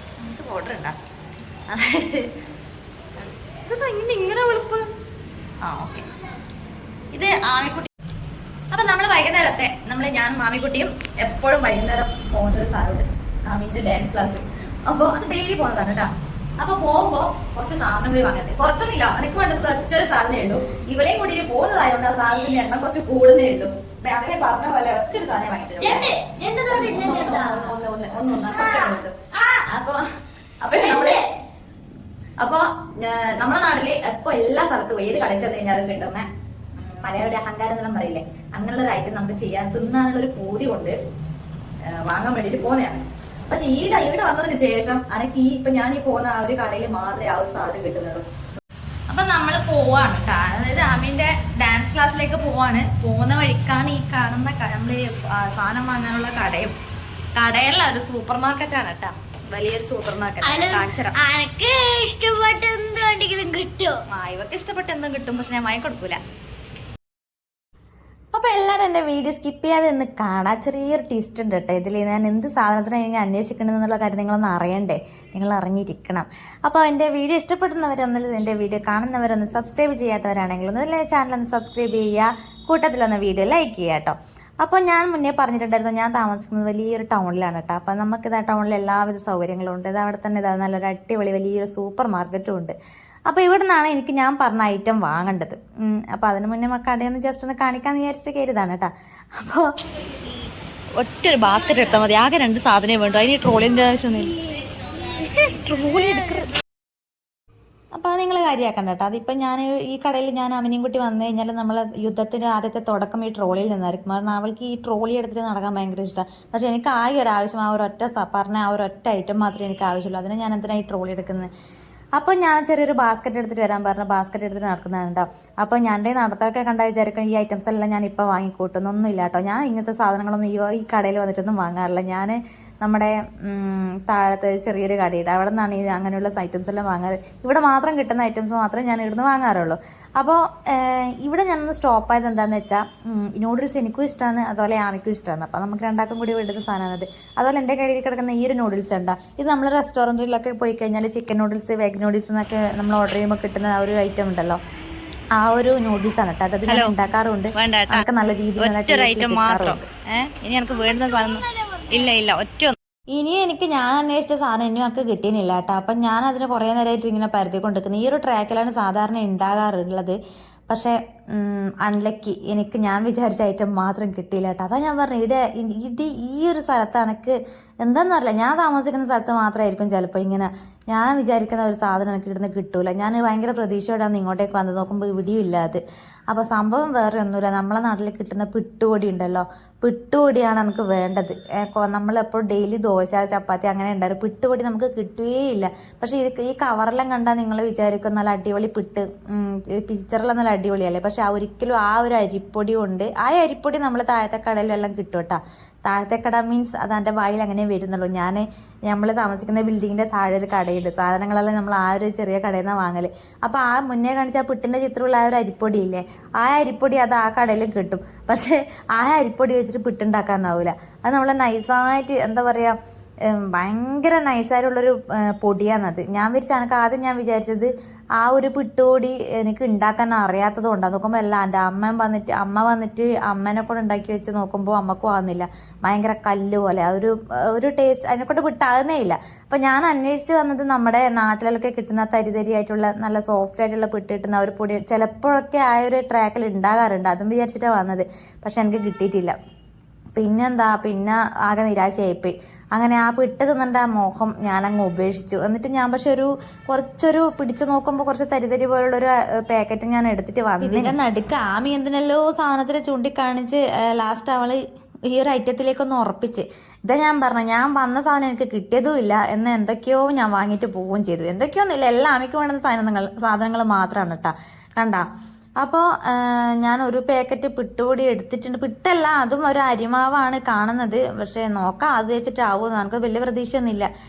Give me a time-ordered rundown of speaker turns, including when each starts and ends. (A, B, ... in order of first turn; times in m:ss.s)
0:00.2-0:01.0 A
0:01.7-0:02.3 A
0:03.2-0:04.9 A
0:05.6-0:06.1 A
0:07.1-0:07.9 A
0:08.7-0:30.0 A
0:25.8-0:27.7 B
0:30.6-0:31.3 A
0:30.8-0:31.2 B
0:32.4-0:36.3 A
0:36.8-0:40.9 A
0:41.8-0:48.2 A
0:49.1-0:56.7 A
0:57.3-1:01.2 A
1:00.4-1:04.0 C
1:01.6-1:02.0 B
1:02.8-1:03.9 B
1:04.1-1:06.2 A
1:08.3-1:32.7 A
1:33.3-1:39.7 A
1:41.0-1:44.4 A
1:45.2-1:46.5 A
1:47.9-2:01.5 A
2:02.2-2:34.6 A
2:35.4-2:39.8 A
2:36.7-2:36.9 B
2:37.5-2:38.1 B
2:38.6-2:42.8 B
2:39.3-2:39.8 C
2:43.1-2:50.1 A
2:50.7-3:42.7 A
3:43.3-4:09.3 A
4:10.2-4:35.0 A
4:35.6-4:43.9 A